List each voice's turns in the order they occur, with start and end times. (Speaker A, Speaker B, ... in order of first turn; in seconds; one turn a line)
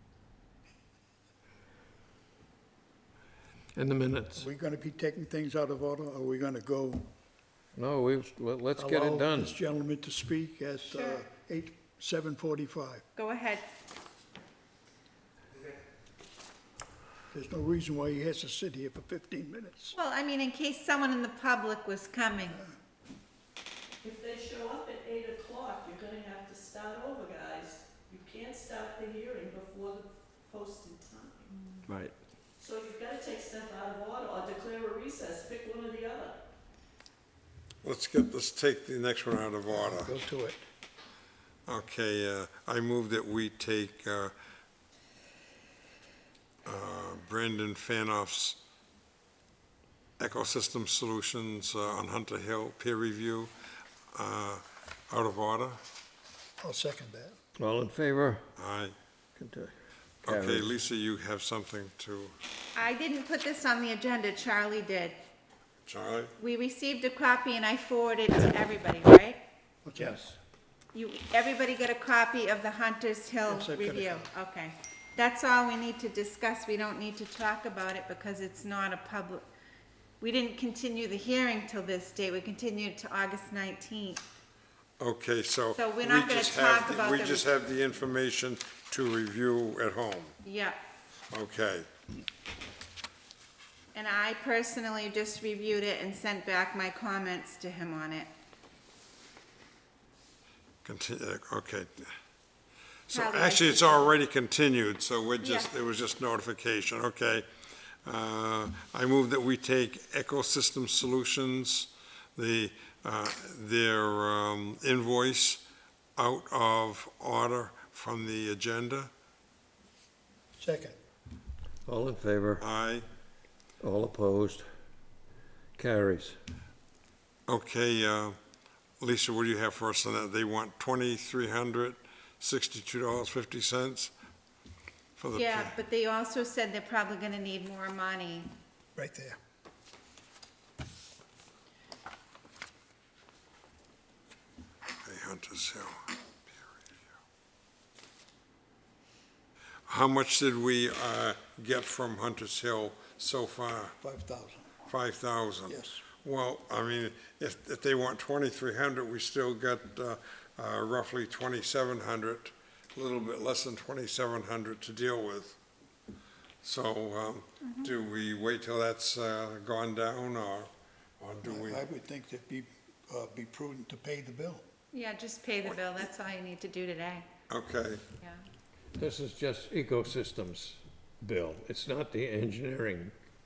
Speaker A: 3.7-4.5
Speaker B: 4.3-7.1
Speaker A: 7.8-9.6
Speaker B: 8.8-13.0
Speaker C: 10.9-11.2
Speaker C: 13.2-13.6
Speaker B: 17.3-19.9
Speaker C: 19.9-22.6
Speaker D: 24.0-31.5
Speaker D: 32.6-36.4
Speaker E: 37.8-40.1
Speaker B: 39.7-40.6
Speaker E: 41.7-44.3
Speaker E: 46.6-48.6
Speaker E: 50.2-53.5
Speaker E: 54.1-55.8
Speaker B: 56.6-57.4
Speaker A: 57.6-58.5
Speaker E: 58.5-58.9
Speaker A: 59.4-59.7
Speaker E: 60.2-62.3
Speaker A: 60.2-60.8
Speaker C: 62.7-65.2
Speaker E: 65.8-66.3
Speaker C: 66.4-69.4
Speaker B: 69.8-70.3
Speaker A: 70.0-70.3
Speaker C: 70.9-79.4
Speaker B: 73.5-74.2
Speaker C: 80.2-84.2
Speaker E: 85.0-90.3
Speaker C: 85.8-87.5
Speaker C: 90.4-90.8
Speaker E: 91.3-91.9
Speaker C: 93.9-98.3
Speaker E: 100.8-102.1
Speaker E: 103.1-107.5
Speaker C: 103.1-104.1
Speaker C: 105.4-105.7
Speaker E: 108.0-115.6
Speaker E: 116.2-119.1
Speaker B: 120.6-121.0
Speaker A: 121.8-122.6
Speaker E: 122.6-123.0
Speaker A: 123.8-124.7
Speaker A: 125.8-126.4
Speaker E: 127.5-128.4
Speaker E: 129.0-134.1
Speaker E: 135.2-135.7
Speaker C: 135.3-138.5
Speaker B: 138.9-139.4
Speaker E: 145.0-146.1
Speaker E: 149.9-153.9
Speaker B: 154.0-154.7
Speaker E: 154.8-165.6
Speaker B: 155.7-156.0
Speaker E: 166.6-171.8
Speaker C: 167.6-167.9
Speaker B: 171.4-174.6
Speaker C: 174.9-177.3
Speaker E: 177.5-178.1
Speaker A: 179.0-183.1